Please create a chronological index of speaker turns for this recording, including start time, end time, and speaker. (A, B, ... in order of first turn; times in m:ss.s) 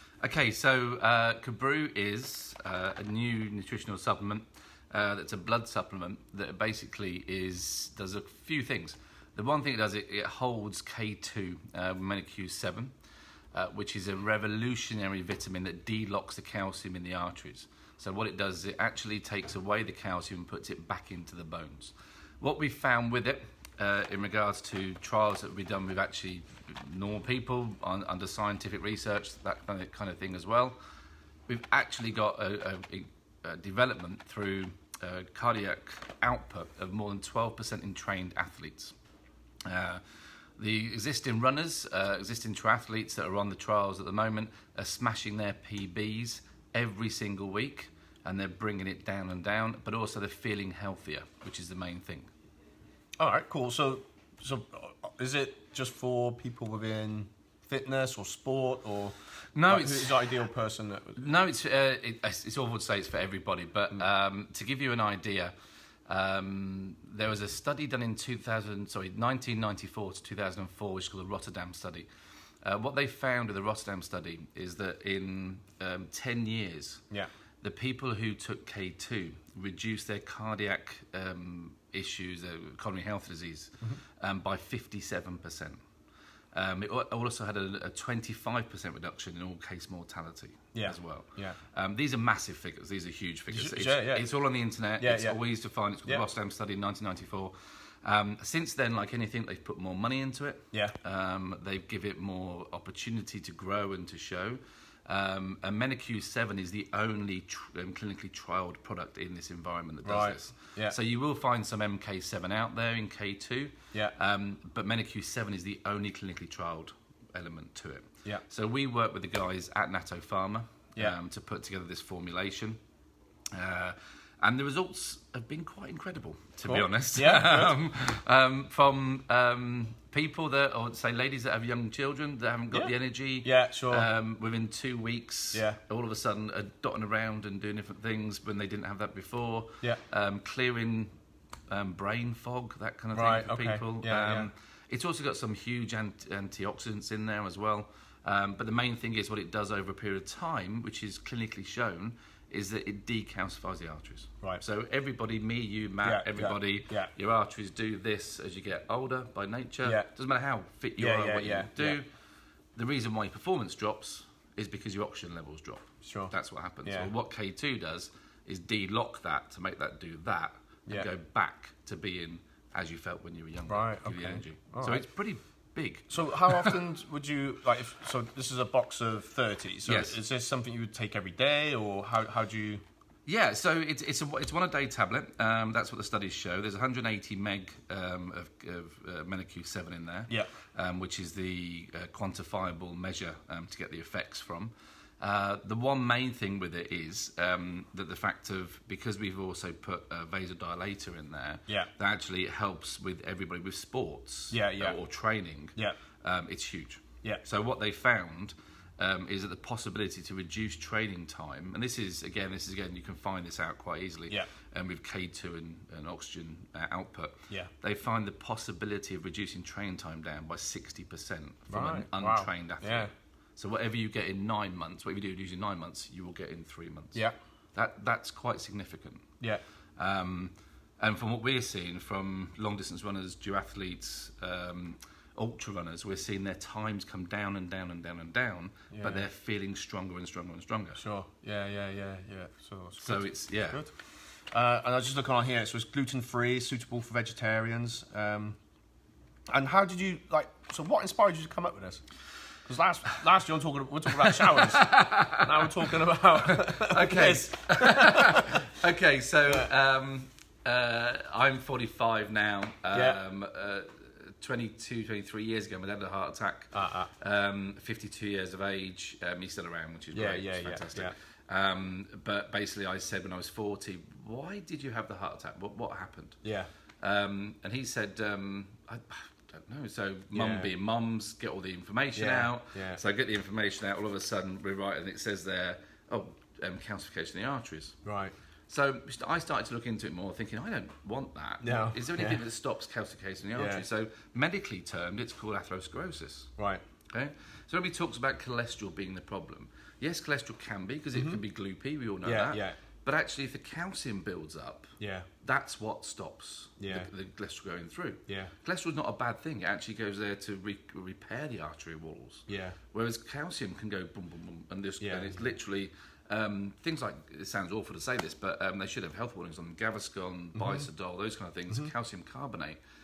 0:00.2-0:12.9 A
0:13.5-0:30.8 A
0:31.5-0:38.9 A
0:39.7-0:40.0 A
0:40.6-0:52.3 A
0:53.2-0:59.2 B
0:59.6-1:00.3 A
0:59.7-1:01.2 B
1:01.2-1:05.5 A
1:06.1-1:12.1 A
1:12.6-1:17.0 A
1:17.6-1:25.8 A
1:26.5-2:02.8 A
1:30.7-1:31.6 B
1:33.5-1:34.3 B
1:35.0-1:35.4 B
1:50.0-1:51.0 B
2:03.5-2:21.1 A
2:06.7-2:07.8 B
2:12.7-2:14.1 B
2:15.5-2:15.8 B
2:21.7-2:42.1 A
2:23.1-2:24.5 B
2:36.0-2:37.1 B
2:39.8-2:40.1 B
2:41.0-2:42.0 B
2:42.8-2:56.8 A
2:46.0-2:47.1 B
2:53.7-2:55.0 B
2:56.1-3:02.8 B
2:59.8-3:00.2 A
3:03.2-3:47.2 A
3:24.5-3:25.0 B
3:41.7-3:43.1 B
3:47.8-3:49.2 A
3:50.0-4:01.0 A
3:58.9-3:59.2 B
4:01.0-4:03.9 B
4:03.0-4:03.8 A
4:04.5-4:08.6 B
4:09.5-4:12.0 B
4:12.7-4:18.6 B
4:14.2-4:15.7 A
4:16.4-4:36.4 A
4:22.9-4:23.2 B
4:26.7-4:27.1 B
4:30.1-4:31.1 B
4:36.4-4:36.7 B
4:37.0-4:48.0 A
4:40.3-4:40.7 B
4:42.1-4:43.0 B
4:48.0-4:48.3 B
4:48.7-4:56.5 A
4:51.6-4:52.4 B
4:53.6-4:53.8 B
4:56.6-4:56.8 B
4:57.1-5:22.8 A
5:01.1-5:01.4 B
5:02.2-5:02.8 B
5:05.0-5:05.3 B
5:06.8-5:07.1 B
5:08.3-5:08.5 B
5:12.5-5:12.8 B
5:15.0-5:15.5 B
5:20.5-5:20.9 B